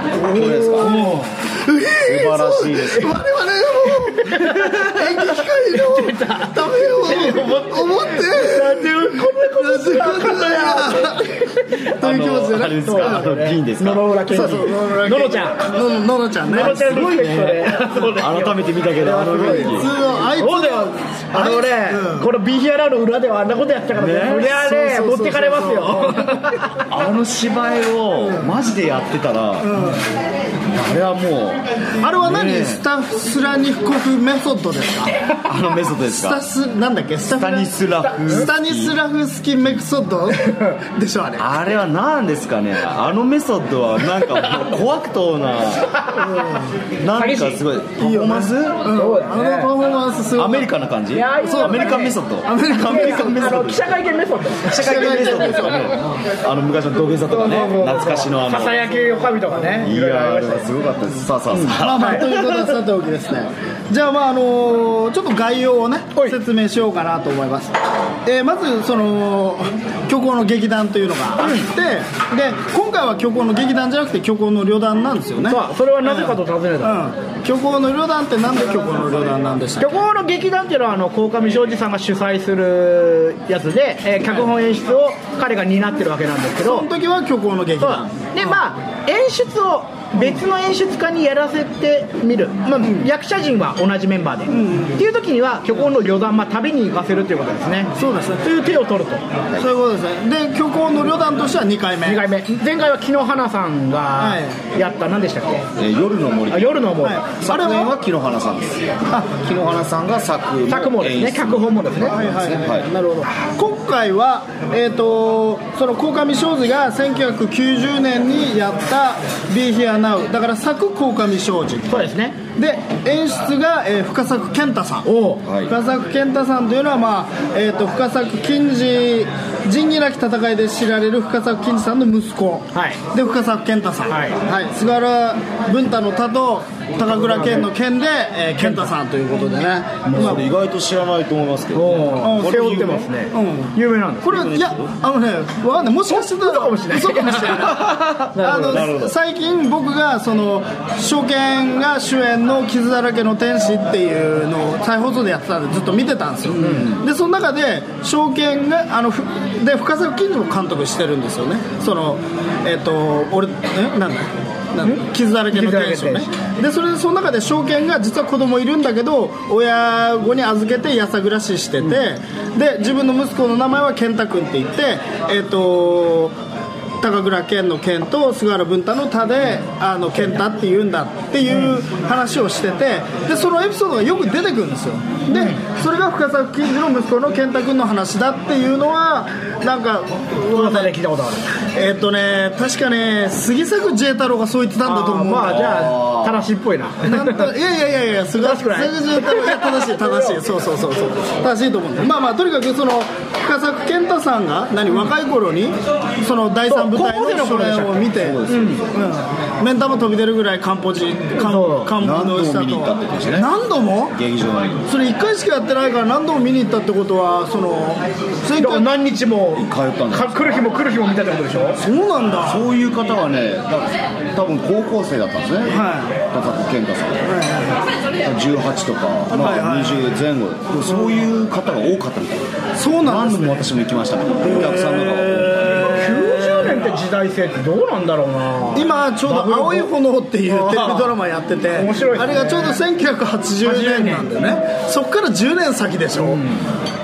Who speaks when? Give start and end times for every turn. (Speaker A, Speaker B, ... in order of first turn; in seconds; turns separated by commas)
Speaker A: 0.1-1.2, Speaker B: 0.3-11.3, Speaker C: 0.8-1.3, Speaker A: 2.0-3.2, Speaker C: 3.9-11.9, Speaker B: 11.9-13.2, Speaker A: 12.0-14.4, Speaker C: 12.8-15.6, Speaker B: 14.3-16.8, Speaker C: 16.5-26.8, Speaker A: 16.5-19.9, Speaker B: 19.4-22.3, Speaker A: 23.9-24.6, Speaker B: 24.3-26.6, Speaker A: 26.9-29.9, Speaker B: 29.6-30.0, Speaker A: 30.7-32.8, Speaker B: 32.0-35.1, Speaker A: 35.5-36.4, Speaker B: 36.1-41.5, Speaker A: 37.3-39.0, Speaker C: 40.4-40.7, Speaker A: 41.4-45.9, Speaker C: 44.3-44.6, Speaker C: 45.9-47.6, Speaker B: 46.2-46.7, Speaker A: 47.0-48.8, Speaker B: 48.0-50.7, Speaker C: 48.8-49.7, Speaker A: 50.4-53.9, Speaker C: 51.1-52.2, Speaker B: 51.4-53.6, Speaker C: 52.8-55.9, Speaker B: 54.6-56.1, Speaker A: 54.7-58.9, Speaker C: 57.3-60.7, Speaker A: 59.8-62.4, Speaker C: 61.5-62.7, Speaker B: 61.7-67.8, Speaker B: 68.3-80.0, Speaker C: 71.4-71.7, Speaker C: 75.5-77.0, Speaker C: 79.8-86.9, Speaker B: 86.6-88.6, Speaker C: 87.8-99.2, Speaker B: 92.8-93.1, Speaker B: 94.5-95.0, Speaker B: 98.0-98.4, Speaker B: 99.6-102.2, Speaker C: 102.0-105.7, Speaker B: 104.2-104.6, Speaker A: 105.8-106.8, Speaker C: 106.5-107.3, Speaker B: 107.0-107.9, Speaker A: 107.4-112.9, Speaker C: 110.7-112.2, Speaker B: 112.1-125.1, Speaker C: 121.9-122.4, Speaker C: 125.1-125.4, Speaker A: 125.5-125.7, Speaker B: 125.7-140.5, Speaker C: 132.7-133.0, Speaker C: 134.1-134.4, Speaker C: 137.0-137.7, Speaker C: 138.6-138.9, Speaker C: 140.0-140.4, Speaker A: 140.1-142.6, Speaker C: 141.7-144.3, Speaker B: 142.2-176.4, Speaker A: 144.3-144.9, Speaker C: 146.1-148.9, Speaker A: 147.8-149.2, Speaker C: 156.6-156.9, Speaker A: 156.6-157.0, Speaker C: 164.8-166.3, Speaker B: 177.0-190.9, Speaker C: 181.5-181.8, Speaker C: 185.3-185.6, Speaker C: 190.5-191.5, Speaker B: 191.6-195.6, Speaker C: 194.8-197.5, Speaker A: 195.4-196.4, Speaker B: 197.0-214.2, Speaker C: 198.4-200.0, Speaker C: 206.7-208.9, Speaker A: 208.2-208.8, Speaker C: 211.4-211.9, Speaker A: 212.0-213.5, Speaker A: 214.1-214.8, Speaker B: 214.9-218.9, Speaker C: 218.6-221.8, Speaker A: 219.6-220.6, Speaker B: 221.8-222.6, Speaker A: 222.4-225.8, Speaker B: 225.7-226.2, Speaker A: 226.3-227.3, Speaker B: 227.3-227.8, Speaker A: 228.2-232.5, Speaker B: 229.3-230.1, Speaker B: 230.8-231.2, Speaker B: 232.8-233.7, Speaker A: 233.0-236.0, Speaker B: 234.4-236.8, Speaker C: 235.9-239.9, Speaker B: 238.7-246.4, Speaker C: 240.4-241.1, Speaker C: 241.8-242.8, Speaker C: 243.6-244.3, Speaker C: 246.2-246.6